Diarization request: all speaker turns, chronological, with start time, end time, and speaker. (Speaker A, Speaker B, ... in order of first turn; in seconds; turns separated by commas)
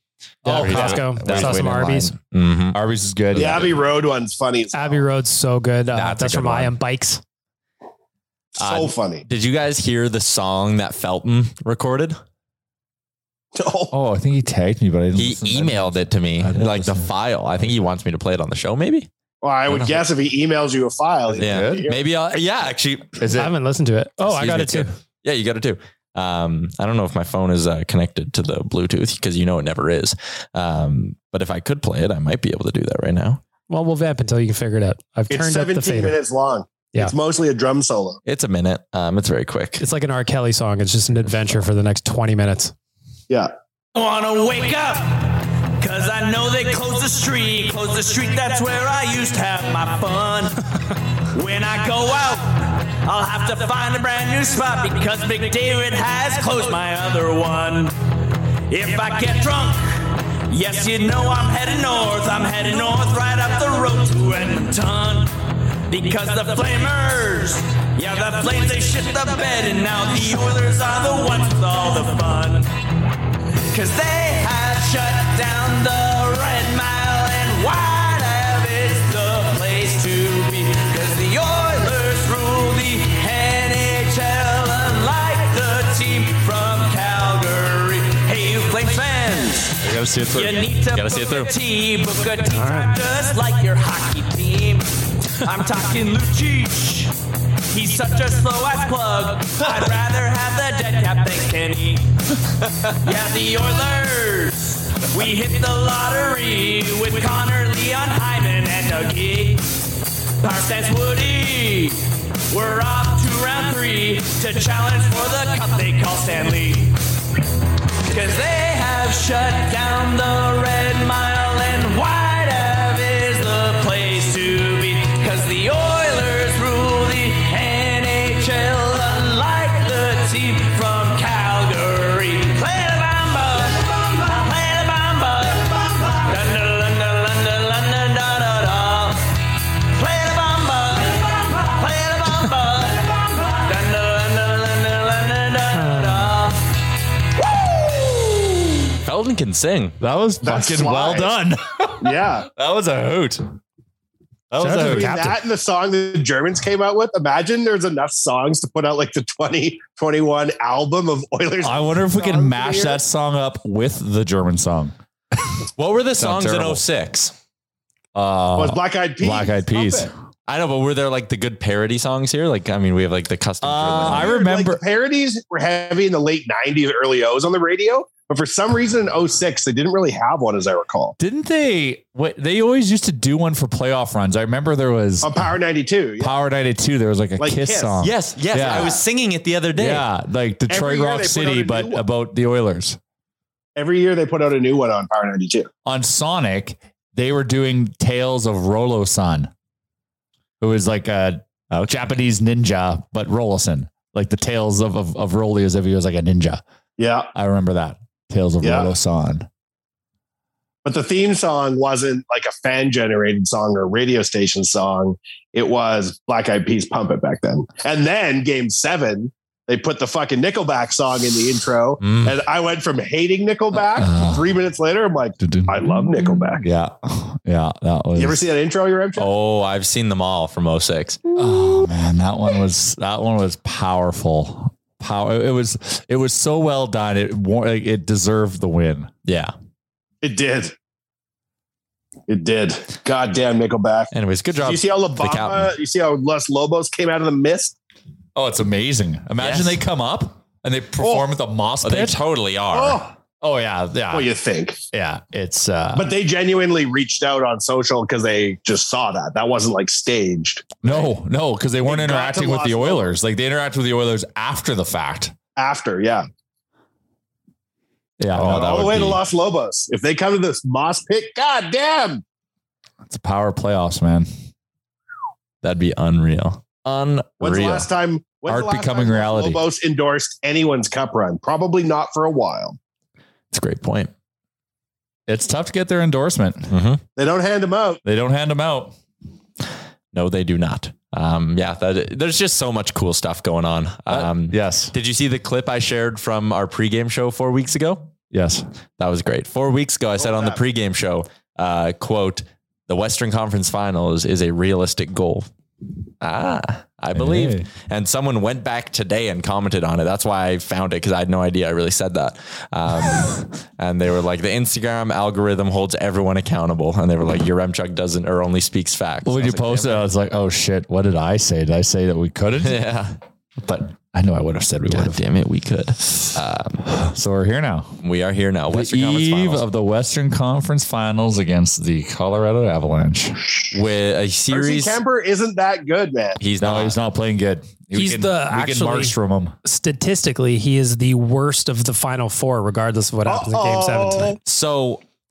Speaker A: 0.4-2.1, Speaker B: 0.5-1.7, Speaker C: 0.5-2.8, Speaker B: 2.7-3.7, Speaker C: 3.3-3.8, Speaker D: 3.4-5.0, Speaker A: 4.7-7.2, Speaker B: 6.0-6.7, Speaker D: 8.6-9.2, Speaker C: 8.6-12.2, Speaker D: 13.5-13.9, Speaker B: 13.9-17.1, Speaker C: 15.2-19.1, Speaker D: 19.4-22.0, Speaker C: 19.7-20.0, Speaker B: 21.4-21.8, Speaker C: 21.4-23.2, Speaker B: 23.2-23.5, Speaker A: 23.3-24.9, Speaker C: 24.3-33.4, Speaker A: 33.7-36.2, Speaker D: 35.3-38.2, Speaker C: 38.3-39.8, Speaker A: 39.8-42.7, Speaker E: 44.0-50.5, Speaker E: 51.4-57.9, Speaker E: 58.7-59.8, Speaker E: 60.5-65.3, Speaker E: 65.9-72.7, Speaker E: 73.7-89.8, Speaker B: 89.8-90.8, Speaker C: 90.3-91.5, Speaker E: 90.3-94.8, Speaker A: 92.5-92.9, Speaker E: 95.4-97.1, Speaker E: 97.7-102.0, Speaker E: 103.0-104.6, Speaker E: 105.1-109.6, Speaker E: 110.4-112.0, Speaker E: 112.5-116.9, Speaker E: 118.1-139.2, Speaker E: 140.0-146.5, Speaker A: 145.7-146.2, Speaker C: 149.0-150.0, Speaker B: 150.0-153.5, Speaker D: 150.4-151.3, Speaker D: 152.0-152.5, Speaker B: 154.5-155.2, Speaker A: 154.6-155.4, Speaker D: 154.7-163.0, Speaker B: 161.6-164.9, Speaker C: 165.8-167.3, Speaker B: 166.2-166.8, Speaker B: 168.2-170.1, Speaker D: 168.6-170.1, Speaker C: 170.5-174.3, Speaker B: 173.6-174.8, Speaker D: 174.0-181.2, Speaker B: 181.2-185.5, Speaker D: 185.2-186.3, Speaker B: 186.2-189.0, Speaker D: 187.4-189.0, Speaker C: 188.0-190.1, Speaker B: 189.7-193.0, Speaker D: 190.7-192.0, Speaker D: 193.8-195.7, Speaker B: 195.8-199.5, Speaker B: 200.6-206.6, Speaker D: 207.0-207.3, Speaker B: 207.3-209.5, Speaker D: 208.6-208.9, Speaker D: 210.8-226.6, Speaker C: 222.0-222.3, Speaker B: 223.9-224.6, Speaker B: 225.4-228.4, Speaker D: 228.2-229.3, Speaker C: 229.2-231.2, Speaker B: 231.4-239.1, Speaker C: 239.3-239.5, Speaker D: 240.2-240.7, Speaker D: 242.3-244.1, Speaker C: 244.1-245.7, Speaker D: 244.6-247.8, Speaker B: 248.3-252.2, Speaker C: 249.4-249.8, Speaker C: 251.8-253.0, Speaker D: 252.7-253.1, Speaker B: 253.4-254.3, Speaker D: 254.1-254.8, Speaker B: 254.9-256.1, Speaker D: 255.9-261.1, Speaker B: 260.8-265.4, Speaker D: 261.9-263.1, Speaker D: 265.6-266.3, Speaker B: 268.2-269.2, Speaker C: 268.3-269.2, Speaker D: 268.4-272.2, Speaker B: 273.1-274.3, Speaker C: 275.6-277.9, Speaker D: 277.4-282.8, Speaker B: 278.5-279.6, Speaker C: 283.5-284.1, Speaker B: 285.3-286.7, Speaker C: 286.7-287.0, Speaker D: 287.2-288.0, Speaker B: 288.1-288.9, Speaker C: 290.1-298.1, Speaker B: 294.1-294.9, Speaker B: 298.3-298.7, Speaker C: 299.0-305.5, Speaker D: 300.2-300.6, Speaker C: 306.2-320.1, Speaker B: 307.1-307.7, Speaker B: 319.2-322.9, Speaker C: 322.6-323.2, Speaker B: 323.6-325.2, Speaker C: 324.9-326.9, Speaker B: 326.9-328.0, Speaker C: 328.0-329.6, Speaker B: 328.7-333.4, Speaker C: 333.7-335.0, Speaker D: 334.5-336.4, Speaker C: 336.4-337.0, Speaker B: 336.6-339.6, Speaker A: 337.9-344.4, Speaker D: 343.3-344.4, Speaker C: 344.4-345.0